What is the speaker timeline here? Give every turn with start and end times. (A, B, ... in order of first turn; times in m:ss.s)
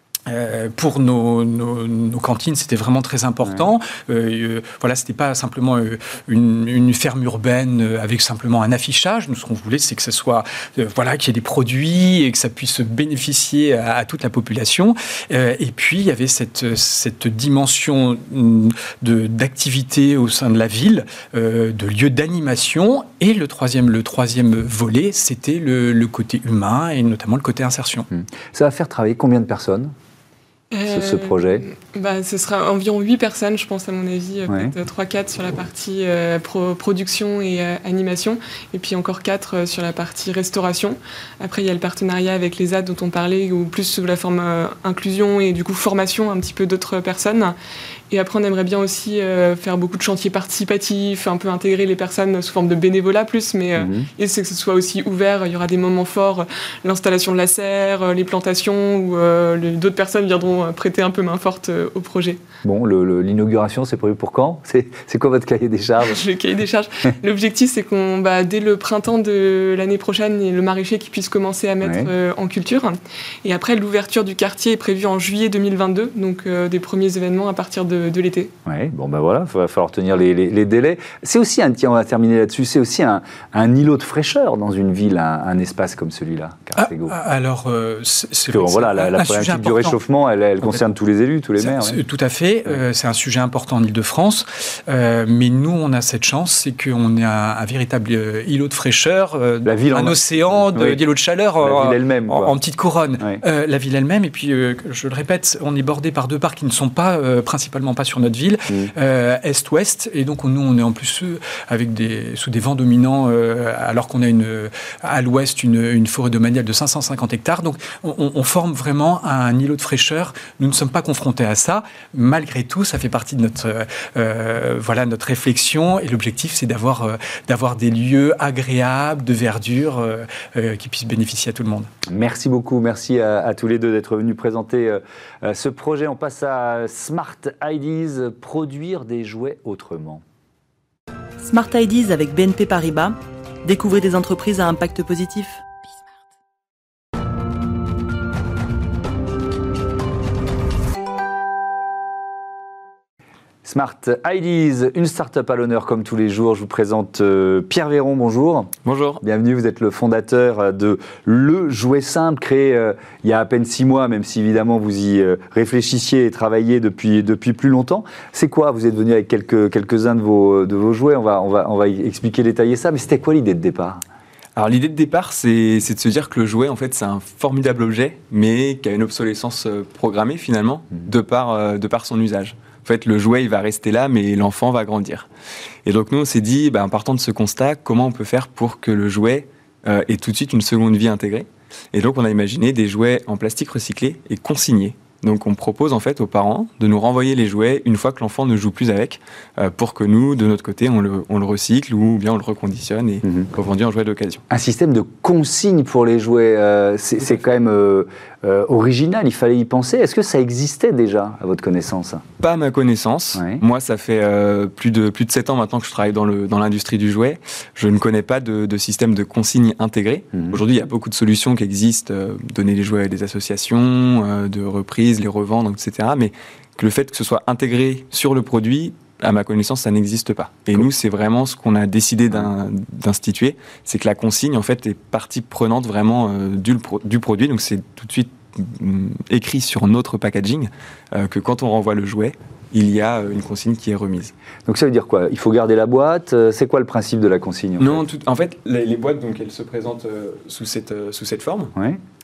0:00.3-0:28.1 A
0:28.1-0:29.9 B
0:30.7-0:47.5 C
0:30.9-0:31.6 B
0:34.5-0:34.7 B
0:48.1-1:02.4 C
0:53.8-0:54.1 B
1:02.6-1:06.2 B
1:06.0-1:18.5 C
1:11.8-1:12.1 B
1:18.6-1:27.1 B
1:26.8-1:30.0 A
1:28.5-1:32.0 B
1:31.6-2:11.9 A
1:39.6-1:41.0 B
1:41.6-1:42.6 B
2:12.1-2:20.2 B
2:21.4-2:25.6 D
2:33.6-2:54.0 B
2:38.8-2:39.2 E
2:54.6-3:05.3 E
3:05.8-3:24.4 E
3:24.5-3:32.2 B
3:32.4-4:04.3 E
3:33.4-3:33.6 B
3:40.3-3:40.6 B
4:04.6-4:08.0 B
4:07.8-4:11.7 E